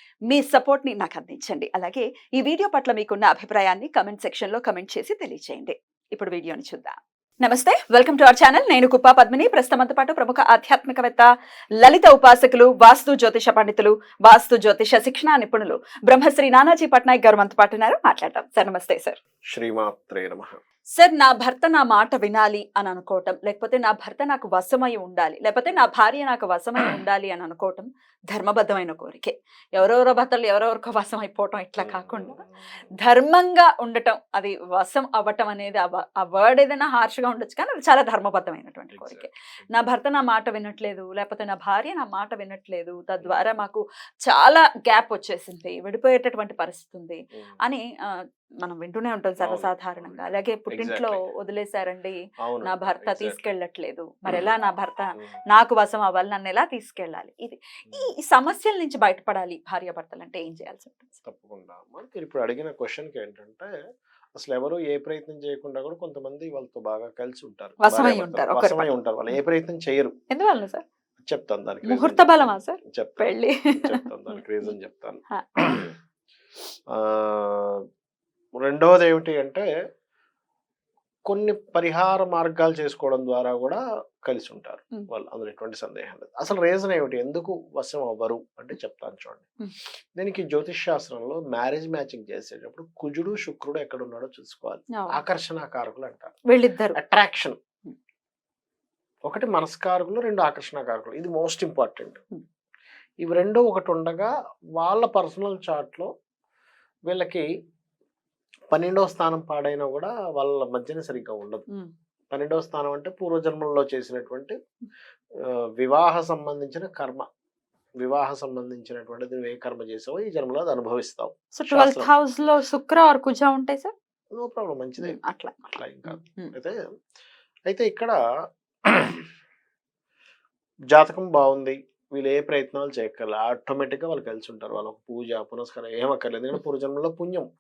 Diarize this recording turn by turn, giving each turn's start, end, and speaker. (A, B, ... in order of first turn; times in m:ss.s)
0:00.3-0:11.3 A
0:11.8-0:19.2 A
0:19.5-0:20.6 B
0:21.0-0:32.4 A
0:31.8-0:32.5 B
0:33.0-0:47.8 A
0:38.9-0:39.7 B
0:48.6-1:01.2 A
0:49.4-0:51.2 B
0:52.4-0:53.4 B
1:01.2-1:03.7 B
1:04.4-1:10.1 B
1:07.8-1:08.9 A
1:10.3-1:10.8 A
1:11.2-1:15.9 B
1:11.8-1:14.0 A
1:16.9-1:17.8 B
1:18.6-1:19.7 B
1:21.3-1:29.5 B
1:30.2-1:36.4 B
1:34.9-1:35.2 A
1:36.5-1:37.0 A
1:37.0-1:37.6 B
1:39.3-1:42.2 B
1:43.2-1:46.1 B
1:47.1-1:47.5 B
1:48.7-1:51.7 B
1:52.3-1:54.5 B
1:55.5-1:57.2 B
1:58.0-2:02.1 B
2:01.5-2:03.9 A
2:04.3-2:05.2 B
2:05.0-2:06.5 A
2:05.7-2:06.8 B
2:07.7-2:08.2 B
2:08.9-2:09.3 B
2:10.9-2:17.5 B